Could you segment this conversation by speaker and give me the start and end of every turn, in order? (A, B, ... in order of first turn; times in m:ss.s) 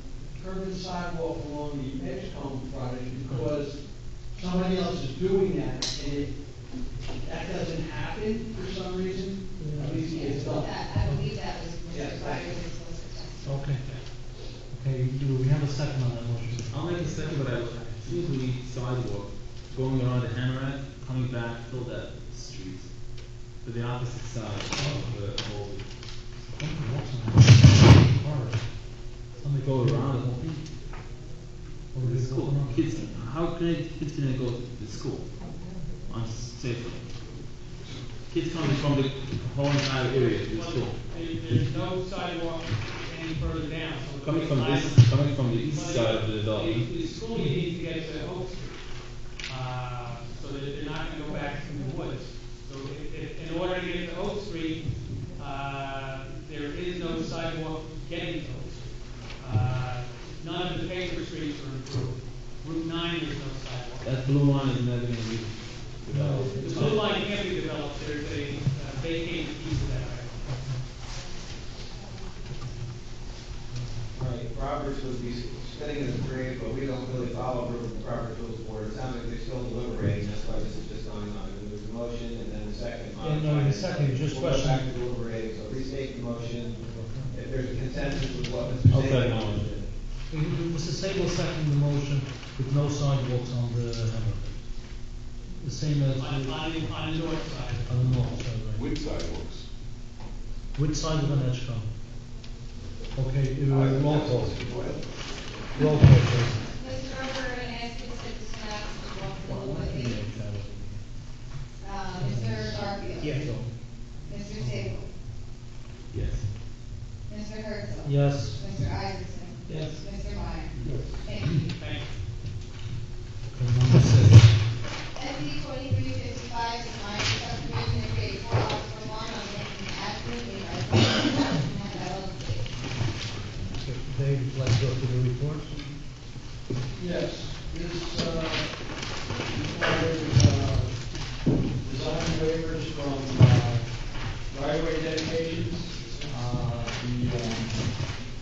0:00.3-0:06.4 A
0:07.2-0:10.7 A
0:09.6-0:09.9 B
0:10.0-0:13.6 C
0:11.0-0:11.3 B
0:11.9-0:12.6 A
0:13.4-0:14.0 B
0:14.7-0:17.3 B
0:16.7-0:23.0 D
0:23.5-0:25.8 D
0:24.8-0:25.1 B
0:26.5-0:30.6 B
0:29.6-0:30.4 D
0:31.9-0:33.0 B
0:32.0-0:35.3 D
0:36.1-0:37.1 D
0:38.3-0:41.0 D
0:40.0-0:48.8 E
0:44.2-0:46.9 D
0:49.4-1:04.1 E
1:04.0-1:07.1 D
1:06.1-1:07.0 B
1:06.6-1:10.3 E
1:10.4-1:10.8 B
1:14.1-1:29.9 F
1:23.2-1:24.8 B
1:26.7-1:27.3 B
1:28.9-1:29.7 D
1:30.3-1:34.7 B
1:35.5-1:36.9 B
1:36.2-1:37.9 E
1:37.8-1:38.9 B
1:40.7-1:41.9 B
1:43.1-1:44.6 B
1:43.7-1:45.0 F
1:45.7-1:46.7 B
1:46.8-1:50.2 C
1:49.4-1:51.0 B
1:51.8-1:53.4 C
1:52.1-1:53.7 B
1:54.2-1:55.1 C
1:54.6-1:54.9 B
1:56.1-1:56.5 D
1:57.3-2:01.7 C
1:58.0-1:58.6 B
2:00.8-2:01.2 D
2:01.8-2:02.1 E
2:03.4-2:04.6 B
2:05.1-2:12.7 C
2:13.7-2:15.7 B
2:16.9-2:18.8 A
2:19.4-2:21.0 A
2:21.8-2:27.9 A